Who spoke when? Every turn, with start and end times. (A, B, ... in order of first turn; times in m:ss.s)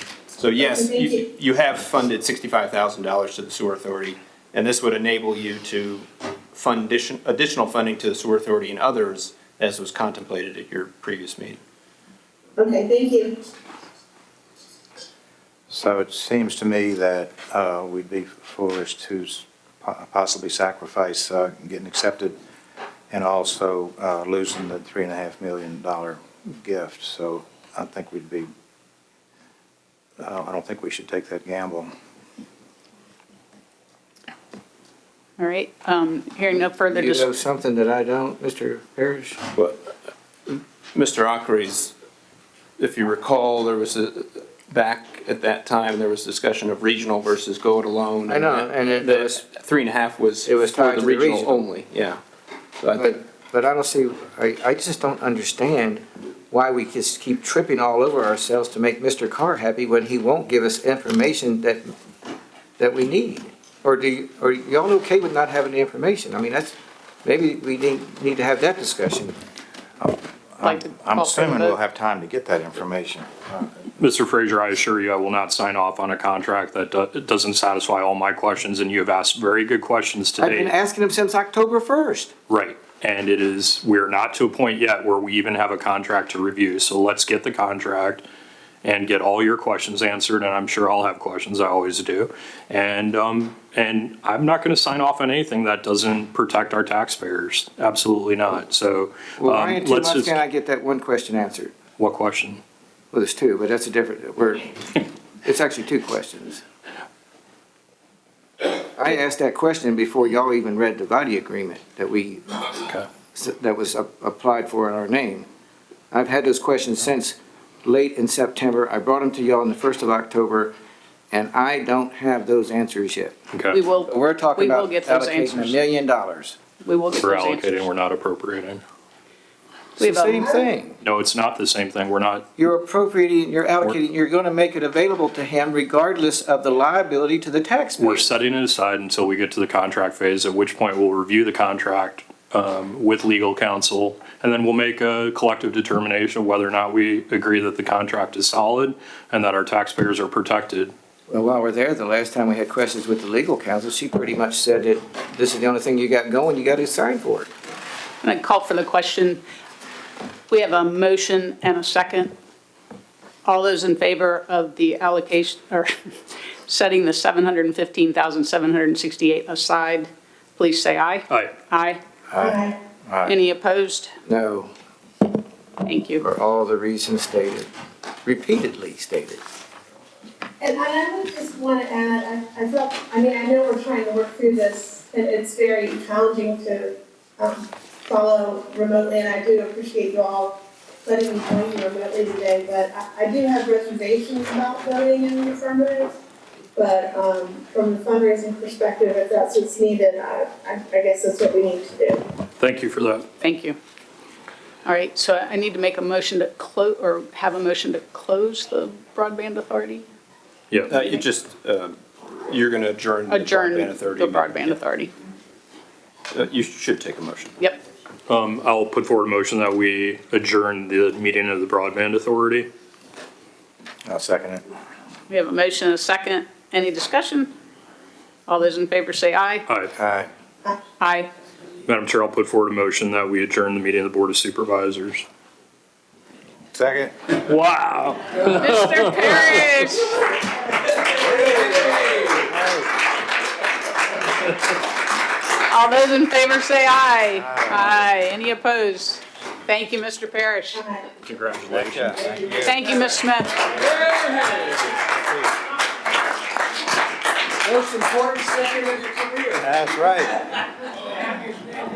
0:00.4-0:11.6 A
0:00.6-0:01.3 B
0:12.6-0:13.4 B
0:15.7-0:22.4 C
0:23.1-0:28.5 C
0:30.2-0:31.9 C
0:35.4-0:37.3 D
0:36.9-0:39.4 E
0:39.5-0:39.9 A
0:40.5-0:42.0 A
0:42.8-0:52.2 A
0:48.3-0:49.4 E
0:50.4-0:51.7 E
0:52.8-0:53.2 A
0:53.0-1:01.9 E
1:02.8-1:09.4 E
1:10.0-1:13.9 C
1:10.6-1:11.8 D
1:14.0-1:20.7 F
1:20.4-1:22.3 E
1:22.5-1:28.3 F
1:28.8-1:40.4 F
1:39.4-1:41.8 E
1:42.0-1:42.6 F
1:43.1-1:46.6 E
1:48.8-1:52.8 E
1:53.3-1:55.5 E
1:56.1-2:00.8 E
2:01.3-2:03.4 E
2:03.5-2:03.8 F
2:03.7-2:05.8 D
2:04.0-2:06.6 E
2:06.8-2:07.8 D
2:07.2-2:08.8 F
2:10.0-2:11.0 E
2:10.0-2:10.6 D
2:11.0-2:12.5 F
2:12.6-2:18.3 E
2:18.0-2:30.9 F
2:31.3-2:37.5 E
2:38.2-2:39.4 D
2:40.5-2:42.3 D
2:43.4-2:45.9 D
2:46.7-2:52.0 D
2:51.3-2:51.6 F
2:52.3-2:53.4 C
2:52.4-2:52.8 B
2:53.2-2:54.1 D
2:54.3-2:54.7 E
2:55.8-2:56.2 D
2:56.2-2:57.7 E
2:58.2-2:59.4 E
3:00.6-3:16.2 B
3:16.8-3:22.2 B
3:22.6-3:23.3 F
3:23.4-3:23.8 D
3:24.8-3:30.1 D
3:30.7-3:31.0 F
3:30.9-3:32.0 A
3:32.5-3:34.8 A
3:33.3-3:35.1 D
3:36.3-3:37.6 A
3:38.3-3:42.7 F
3:44.1-3:44.6 C
3:45.3-3:47.5 D
3:48.5-3:49.7 D
3:50.0-3:50.3 C
3:51.0-3:51.3 D
3:51.9-3:55.3 F
3:56.7-3:57.2 C
3:57.4-3:59.9 F
3:58.4-4:00.2 D
4:05.7-4:10.8 D
4:10.8-4:11.1 B
4:11.2-4:12.4 F
4:11.7-4:12.7 C
4:12.5-4:13.8 D
4:17.7-4:19.3 E
4:19.6-4:20.3 C